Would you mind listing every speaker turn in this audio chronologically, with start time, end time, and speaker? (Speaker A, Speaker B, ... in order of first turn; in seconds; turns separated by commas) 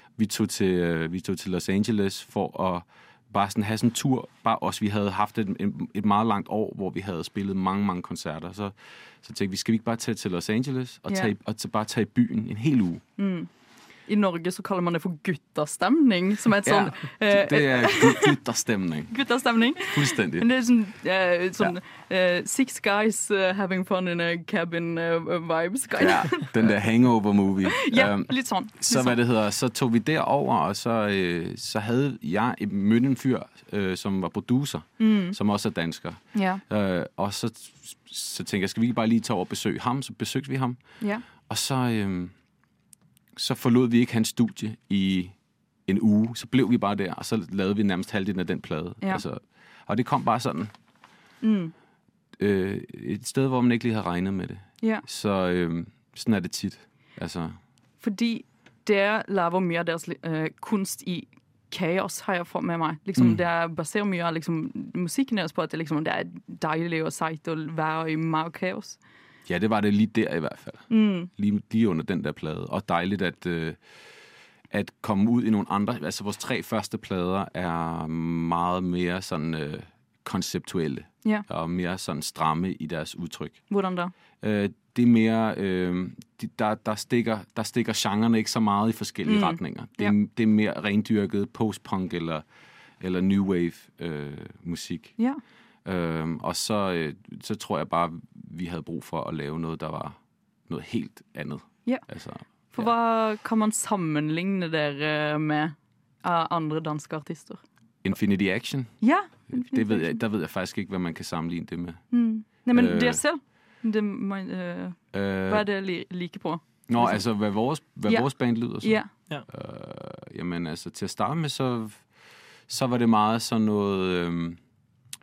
Speaker A: 0.2-13.0, Speaker B: 11.1-11.3, Speaker B: 13.2-13.5, Speaker B: 14.1-18.4, Speaker A: 16.6-19.2, Speaker B: 19.1-26.7, Speaker A: 19.8-20.5, Speaker A: 26.0-40.8, Speaker B: 27.7-29.2, Speaker B: 35.0-35.4, Speaker B: 36.3-36.6, Speaker B: 41.0-41.3, Speaker A: 41.5-42.3, Speaker A: 43.4-45.3, Speaker A: 45.9-50.7, Speaker B: 51.4-51.7, Speaker A: 52.4-57.5, Speaker B: 58.0-69.0, Speaker A: 69.5-73.8, Speaker B: 70.9-71.3, Speaker A: 74.7-83.6, Speaker B: 83.7-84.1, Speaker A: 84.4-92.4, Speaker B: 89.2-90.2, Speaker A: 93.0-95.2, Speaker A: 95.8-100.2, Speaker A: 100.7-102.9, Speaker B: 102.7-107.6, Speaker A: 108.0-108.9, Speaker B: 109.0-110.2, Speaker A: 109.5-112.0, Speaker B: 112.1-117.2, Speaker A: 112.7-113.2, Speaker A: 115.1-115.7, Speaker A: 116.9-122.0, Speaker B: 118.8-119.1, Speaker A: 122.7-124.6